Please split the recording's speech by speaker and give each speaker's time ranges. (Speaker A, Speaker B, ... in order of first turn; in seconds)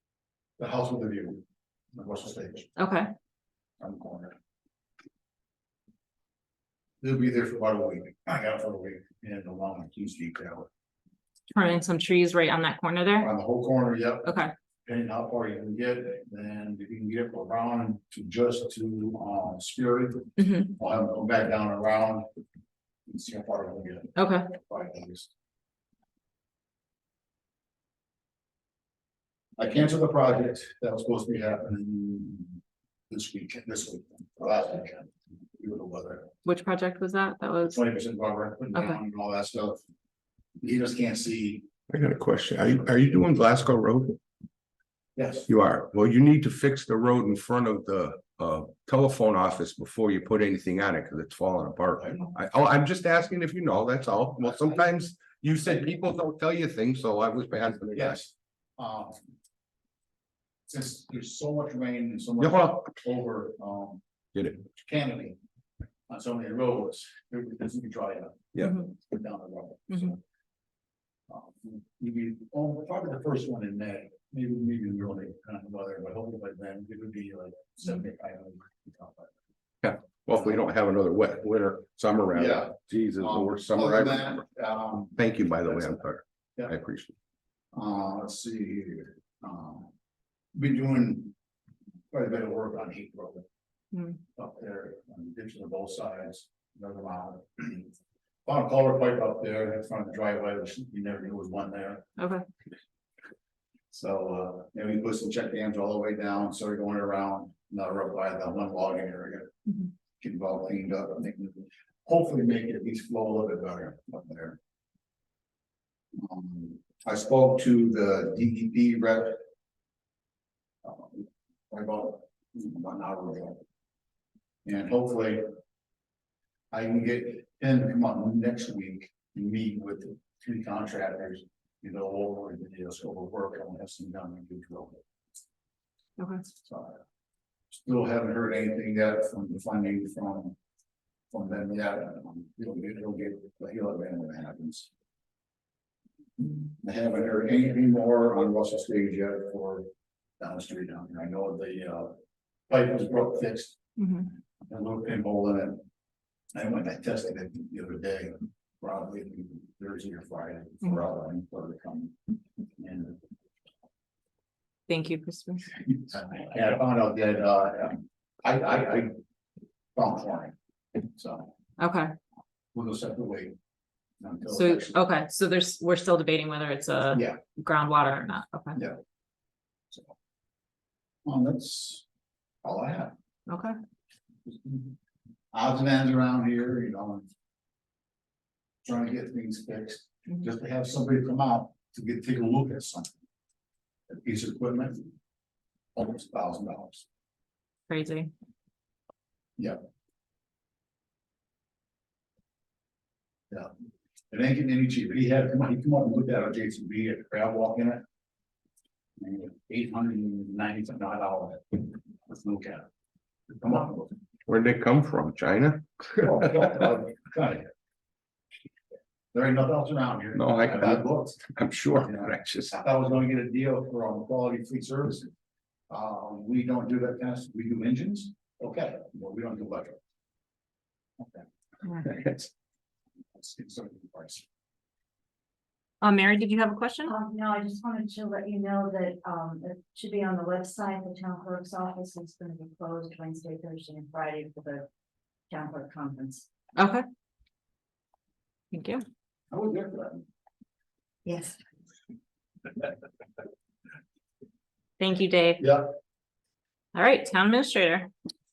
Speaker A: 0.6-2.7, 3.8-4.3, 7.0-10.7, 13.2-14.3, 14.9-22.3, 23.1-25.3, 29.6-36.3, 37.7-39.8, 40.6-41.7, 45.2-45.5, 57.9-59.2, 60.7-64.0, 64.6-65.4, 66.1-70.2, 71.3-79.3, 82.3-86.0, 87.7-89.9, 90.5-91.3, 92.1-93.5, 94.3-97.9, 98.5-102.1, 103.9-109.5, 110.2-114.6, 116.2-119.4, 120.8-123.6, 124.7-125.5, 126.7-135.0, 136.6-137.0, 137.7-140.6, 141.3-144.9, 146.8-149.9, 150.4-152.2, 152.7-155.8, 156.6-162.2, 162.8-163.2, 165.8-169.2, 169.9-171.5, 172.7-173.6, 174.2-175.0, 177.2-177.4, 181.3-182.1, 182.6-183.1, 184.5-184.8, 185.5-187.3, 188.8-193.1, 194.1-195.0, 195.9-197.1, 204.3-208.0, 209.2-212.8, 213.5-214.2, 216.2-217.7, 219.3-221.4, 222.0-225.3, 225.9-230.0, 231.2-231.5, 232.0-232.5, 233.3-234.5, 249.5-250.2, 255.6-255.9
Speaker B: 2.8-3.1, 11.5-13.3, 14.2-14.5, 20.4-20.6, 24.2-24.5, 36.5-37.8, 102.2-102.4, 164.9-165.7, 171.8-172.2, 174.5-178.8, 183.5-183.8, 197.9-198.3, 236.0-237.1, 246.8-247.0, 248.7-249.0, 255.0-255.6, 256.9-258.1
Speaker C: 41.9-44.2, 45.5-58.2, 62.4-62.8, 79.8-84.4, 85.2-87.1, 214.5-216.4, 220.3-222.8
Speaker D: 237.0-244.9, 245.5-246.5, 251.2-251.6